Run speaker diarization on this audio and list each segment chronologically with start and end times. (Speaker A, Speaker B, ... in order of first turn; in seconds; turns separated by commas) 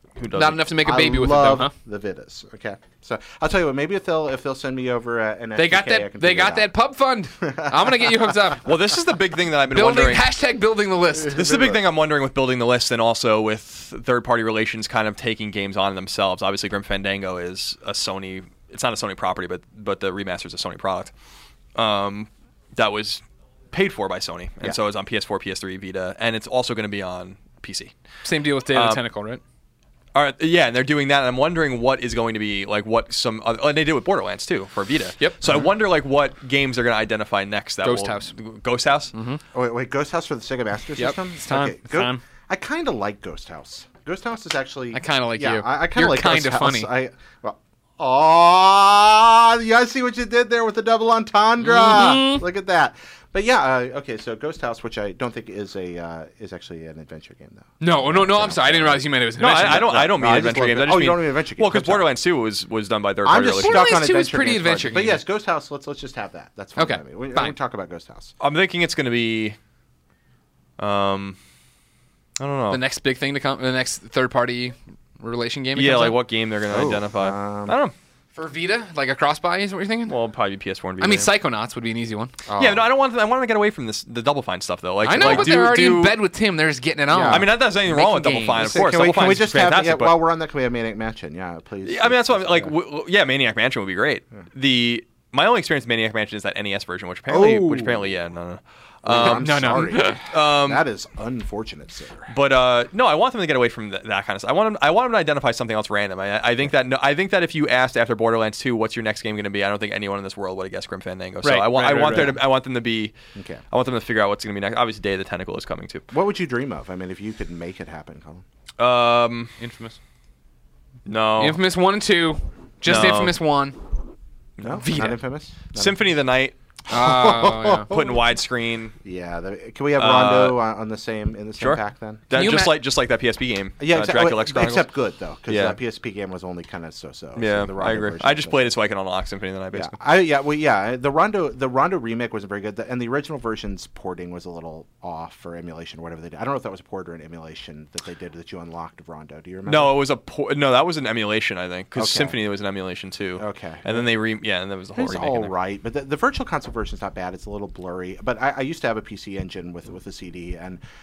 Speaker A: 0.2-0.7, Speaker B: 0.3-1.7, Speaker C: 0.8-6.7, Speaker B: 5.6-8.7, Speaker C: 7.4-8.3, Speaker A: 8.7-10.3, Speaker B: 9.7-11.4, Speaker C: 11.2-11.8, Speaker A: 11.3-21.1, Speaker A: 21.8-27.9, Speaker B: 28.2-29.4, Speaker A: 28.7-29.0, Speaker A: 30.1-39.1, Speaker B: 37.8-38.3, Speaker B: 39.1-39.4, Speaker C: 39.5-62.1, Speaker B: 41.0-42.2, Speaker B: 44.9-46.9, Speaker B: 51.6-52.5, Speaker B: 57.8-60.0, Speaker A: 59.4-63.9, Speaker C: 63.2-68.3, Speaker B: 63.6-65.2, Speaker B: 66.8-67.5, Speaker A: 68.4-69.6, Speaker A: 70.8-71.4, Speaker A: 72.4-72.8, Speaker B: 72.7-76.2, Speaker A: 75.8-77.9, Speaker C: 76.7-77.8, Speaker B: 78.3-80.2, Speaker A: 80.1-81.3, Speaker B: 81.0-82.3, Speaker C: 82.5-82.9, Speaker A: 82.6-86.2, Speaker B: 85.0-89.0, Speaker C: 85.2-85.5, Speaker C: 87.1-87.5, Speaker A: 87.3-90.2, Speaker C: 88.6-92.7, Speaker A: 91.8-100.8, Speaker C: 97.3-98.1, Speaker C: 99.0-102.3, Speaker B: 99.2-100.2, Speaker A: 102.3-113.2, Speaker B: 111.4-112.4, Speaker C: 112.0-112.4, Speaker C: 113.3-113.6, Speaker A: 113.7-116.1, Speaker C: 116.1-118.4, Speaker A: 118.8-119.5, Speaker B: 119.6-120.0, Speaker A: 121.1-121.6, Speaker B: 121.4-123.8, Speaker A: 122.9-123.4, Speaker C: 124.6-126.0, Speaker B: 124.8-125.2, Speaker A: 125.7-126.6, Speaker B: 126.9-127.9, Speaker C: 126.9-128.2, Speaker A: 127.9-129.0, Speaker C: 129.0-132.2, Speaker A: 130.0-130.6, Speaker A: 131.6-134.9, Speaker B: 132.3-132.8, Speaker C: 133.8-138.6, Speaker A: 135.5-135.8, Speaker A: 137.4-140.0, Speaker C: 139.7-150.0, Speaker A: 149.7-155.5, Speaker C: 152.0-152.4, Speaker C: 153.4-154.1, Speaker C: 154.9-160.8